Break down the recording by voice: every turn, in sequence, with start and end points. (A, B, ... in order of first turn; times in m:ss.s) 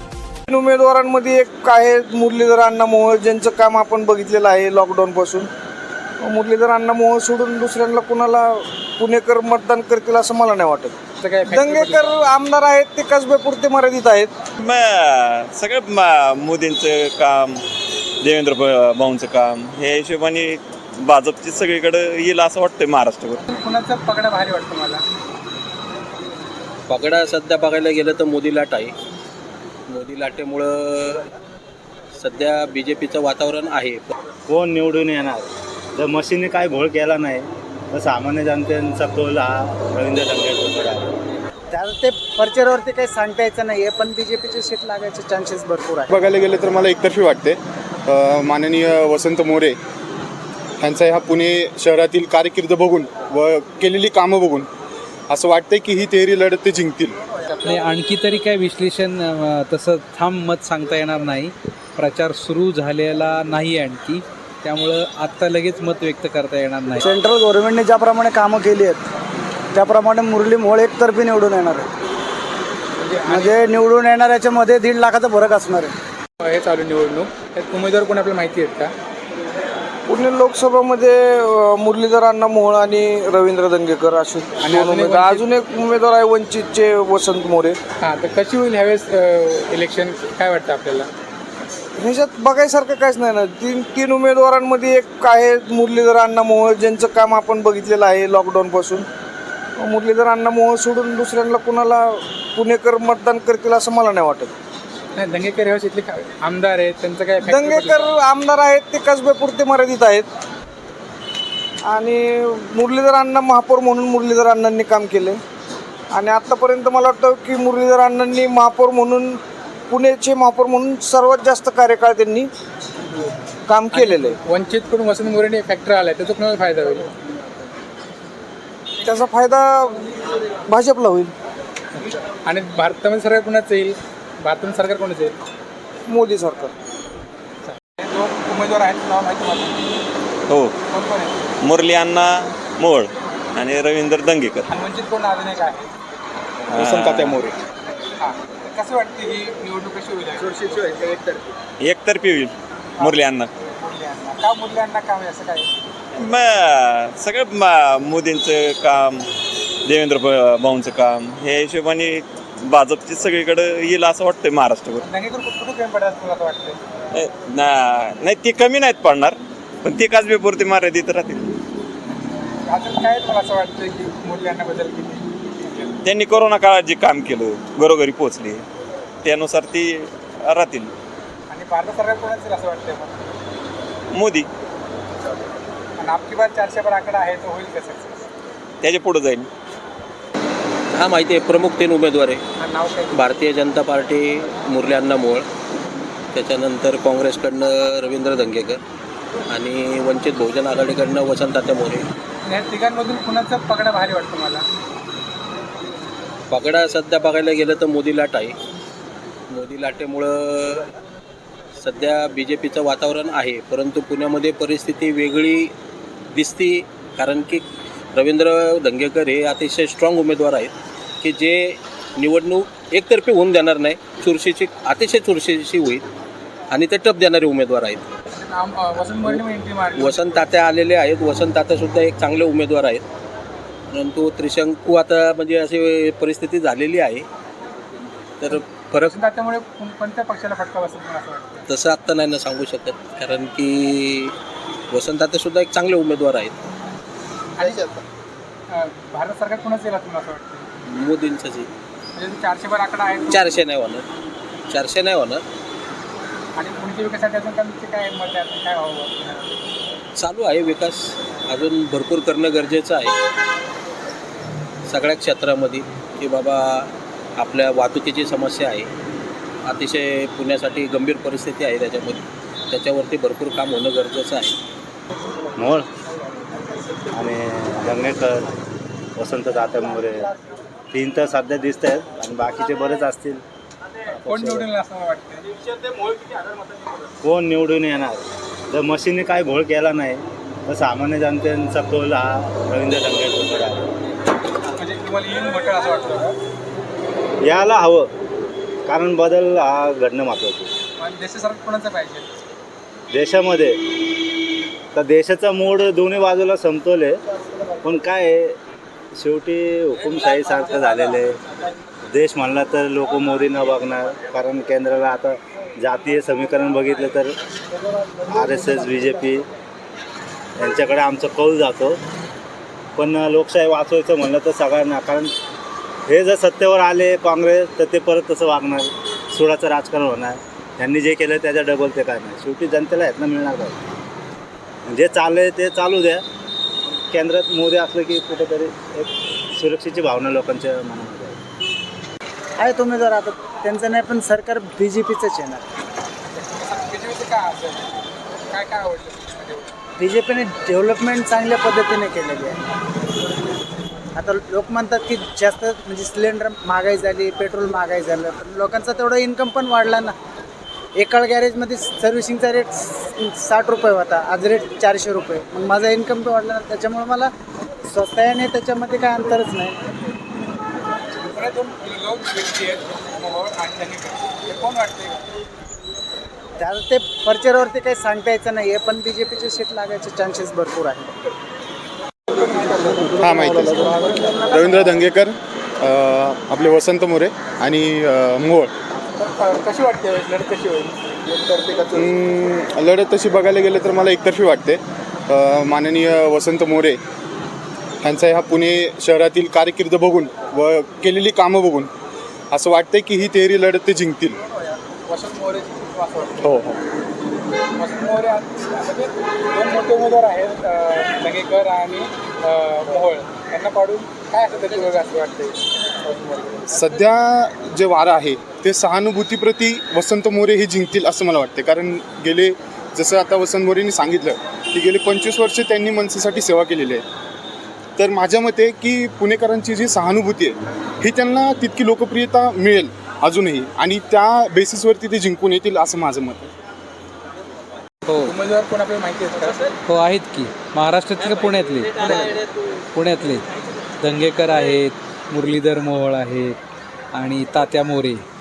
0:00.5-0:05.5 A
0:06.2-0:11.0 A
0:11.2-0:12.2 B
0:11.5-0:14.3 A
0:14.6-0:17.6 C
0:18.2-0:23.4 C
0:23.4-0:25.0 B
0:26.9-0:28.9 D
0:29.9-0:31.3 D
0:32.2-0:34.1 D
0:34.5-0:41.1 E
0:41.7-0:46.1 F
0:46.1-0:49.8 G
0:50.8-0:54.7 G
0:55.3-0:57.2 G
0:57.6-1:07.0 H
1:07.0-1:09.0 F
1:09.7-1:11.9 F
1:13.0-1:13.6 B
1:13.3-1:16.0 F
1:16.4-1:18.9 B
1:20.1-1:27.8 A
1:24.6-1:25.5 B
1:28.0-1:31.1 B
1:32.0-1:39.1 A
1:39.8-1:44.5 A
1:45.2-1:48.1 B
1:47.4-1:50.3 A
1:51.9-1:55.4 A
1:56.1-2:02.5 A
2:03.7-2:04.4 A
2:03.9-2:07.2 B
2:09.0-2:10.1 A
2:10.7-2:11.3 A
2:12.0-2:15.4 B
2:16.1-2:16.7 A
2:17.7-2:19.9 B
2:20.5-2:20.7 C
2:20.9-2:21.4 B
2:21.6-2:24.7 C
2:24.7-2:25.9 B
2:26.7-2:27.6 G
2:26.7-2:27.4 C
2:28.2-2:31.1 B
2:31.8-2:33.5 C
2:33.8-2:35.7 B
2:36.2-2:39.3 C
2:39.8-2:45.0 C
2:45.0-2:46.8 B
2:47.1-2:51.5 C
2:52.7-2:55.9 B
2:56.0-2:58.6 C
2:59.2-3:00.9 C
3:01.5-3:03.2 B
3:04.1-3:04.5 C
3:06.0-3:08.2 B
3:08.8-3:09.5 C
3:10.9-3:12.4 D
3:12.6-3:13.2 B
3:13.1-3:15.4 D
3:16.3-3:18.8 D
3:19.5-3:22.0 D
3:22.4-3:24.6 B
3:26.5-3:28.5 D
3:29.5-3:30.9 D
3:31.8-3:35.7 D
3:36.3-3:46.0 D
3:46.7-3:48.0 D
3:48.3-3:50.4 B
3:50.0-3:53.0 D
3:53.9-3:57.3 D
3:58.4-3:59.2 D
3:59.0-4:01.7 B
4:01.7-4:04.4 D
4:04.9-4:06.5 D
4:07.6-4:08.0 B
4:08.7-4:10.7 B
4:10.9-4:11.7 D
4:12.2-4:13.6 B
4:13.3-4:14.0 D
4:14.7-4:15.4 D
4:16.6-4:19.5 B
4:20.2-4:23.2 D
4:24.9-4:28.9 D
4:29.6-4:34.6 D
4:35.6-4:35.9 E
4:37.1-4:38.5 E
4:39.2-4:40.3 E
4:40.9-4:43.4 E
4:44.2-4:45.6 B
4:47.2-4:53.9 E
4:54.8-4:56.4 B
4:57.4-4:58.1 E
4:58.9-5:00.7 E
5:01.0-5:02.5 B
5:03.1-5:04.0 E
5:04.9-5:07.2 E
5:07.8-5:08.6 E
5:09.2-5:11.4 E
5:12.1-5:17.3 E
5:18.3-5:19.5 E
5:20.6-5:22.0 E
5:23.0-5:25.3 E
5:26.1-5:33.8 E
5:34.9-5:36.2 E
5:37.1-5:41.4 E
5:42.6-5:45.7 F
5:46.3-5:49.8 B
5:50.0-5:52.6 F
5:54.2-6:00.2 F
6:01.0-6:07.3 F
6:07.8-6:09.8 F
6:11.3-6:15.2 B
6:16.6-6:21.2 F
6:22.3-6:23.3 B
6:23.2-6:24.0 G
6:23.9-6:24.3 A
6:24.3-6:24.8 B
6:24.5-6:28.7 G
6:29.2-6:31.0 B
6:31.9-6:37.0 G
6:38.0-6:41.9 G
6:42.5-6:44.4 G
6:45.1-6:46.6 B
6:46.4-6:46.8 G
6:47.8-6:56.7 B
6:56.7-7:07.0 G
7:08.0-7:16.5 G
7:18.1-7:18.3 H
7:18.2-7:19.6 B
7:19.9-7:22.4 H
7:22.9-7:23.4 H
7:24.0-7:26.6 H
7:27.1-7:28.2 H